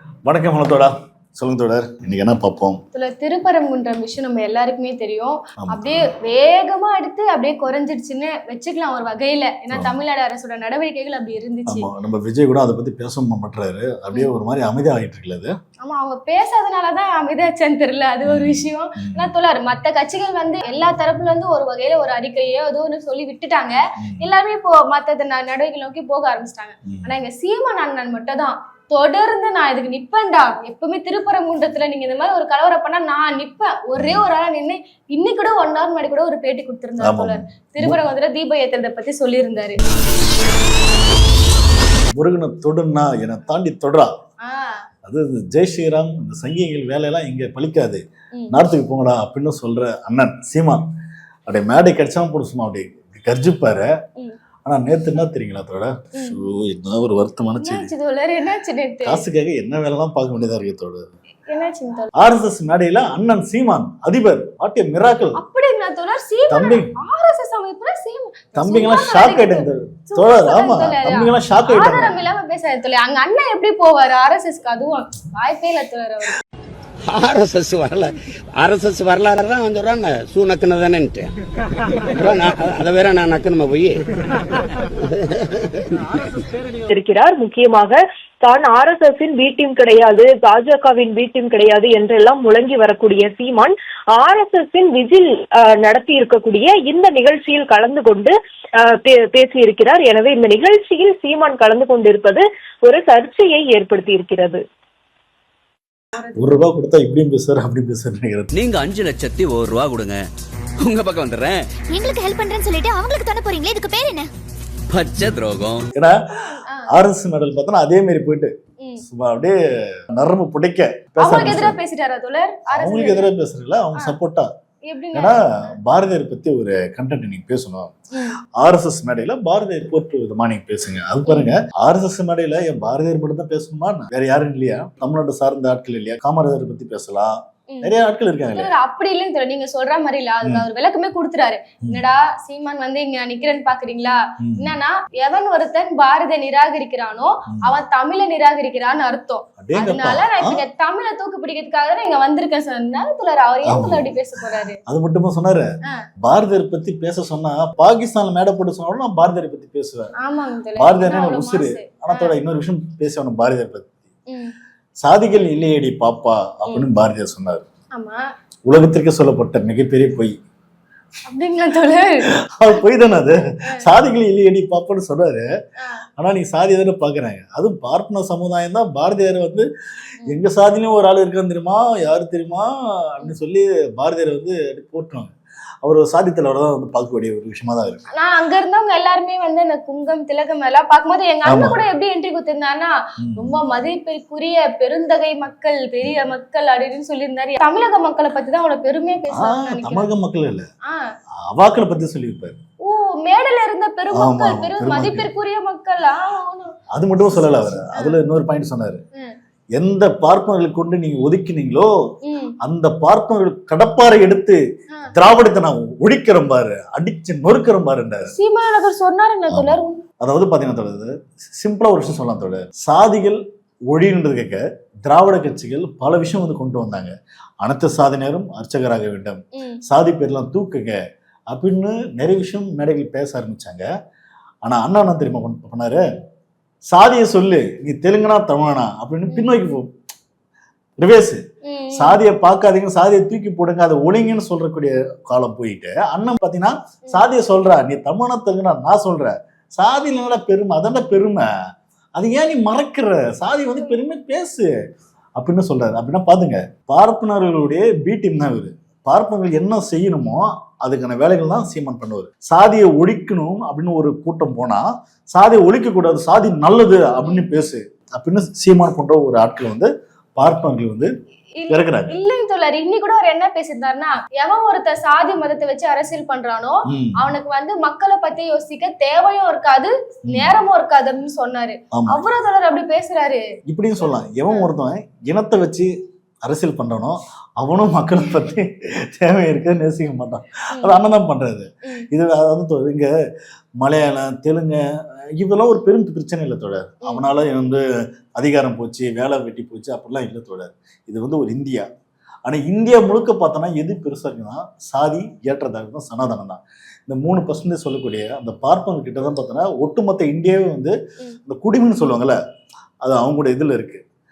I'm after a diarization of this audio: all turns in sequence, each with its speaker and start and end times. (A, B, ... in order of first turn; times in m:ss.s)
0:00.2-0:02.8 A
0:02.9-0:11.9 B
0:05.6-0:06.0 A
0:11.7-0:15.5 A
0:15.8-0:39.8 B
0:18.2-0:19.3 A
0:34.0-0:34.3 A
0:37.0-0:38.0 A
0:42.2-0:44.1 A
0:44.4-0:44.8 B
0:45.0-0:50.8 A
0:51.5-0:53.9 A
0:54.6-0:57.9 A
0:56.1-0:56.4 B
0:57.6-0:59.2 B
0:59.0-1:01.1 A
1:01.5-1:02.1 B
1:02.2-1:05.4 A
1:05.4-1:16.4 B
1:06.5-1:06.9 A
1:08.6-1:12.2 A
1:17.1-1:21.3 C
1:22.1-1:24.0 C
1:26.9-1:44.6 D
1:46.4-1:48.5 A
1:48.5-1:50.2 E
1:50.8-1:51.6 E
1:52.0-1:54.2 F
1:54.9-1:55.8 E
1:56.9-1:58.5 A
1:59.0-1:59.6 A
2:00.1-2:01.8 A
2:01.2-2:03.3 B
2:02.7-2:04.5 A
2:04.9-2:05.7 B
2:05.1-2:07.9 A
2:08.6-2:18.7 A
2:11.3-2:11.5 B
2:18.5-2:34.8 B
2:24.4-2:24.7 A
2:29.6-2:30.6 A
2:33.6-2:34.0 A
2:34.9-2:35.7 A
2:36.2-2:40.1 A
2:40.2-2:42.3 B
2:40.8-2:43.9 A
2:45.0-2:47.6 A
2:47.9-2:48.2 B
2:48.7-2:50.3 A
2:51.3-2:52.3 B
2:52.6-2:55.4 A
2:56.2-2:59.6 A
3:00.2-3:05.3 A
3:05.8-3:08.0 A
3:08.1-3:20.1 B
3:11.4-3:11.8 A
3:13.2-3:13.6 A
3:19.3-3:20.6 A
3:21.5-3:22.6 A
3:22.8-3:26.8 B
3:24.1-3:25.3 A
3:26.9-3:29.0 A
3:27.3-3:28.2 B
3:29.8-3:31.9 A
3:32.2-3:32.5 B
3:32.6-3:34.6 A
3:35.1-3:38.3 A
3:38.3-3:40.0 B
3:39.5-3:43.4 A
3:43.9-3:50.9 A
3:51.5-3:53.8 A
3:54.6-3:56.0 A
3:56.9-3:59.9 A
4:01.0-4:01.4 A
4:01.6-4:02.2 B
4:01.9-4:11.4 A
4:12.2-4:14.7 A
4:15.4-4:31.1 A
4:27.2-4:27.5 B
4:31.6-4:43.4 B
4:31.7-4:32.1 A
4:36.9-4:37.3 A
4:40.3-4:40.5 A
4:41.9-4:42.2 A
4:43.7-4:45.9 A
4:44.1-4:44.7 B
4:46.4-4:53.1 A
4:53.8-4:54.8 A
4:55.4-4:57.8 A
4:58.4-5:01.8 A
5:02.5-5:10.9 A
5:11.4-5:12.4 A
5:13.0-5:14.0 A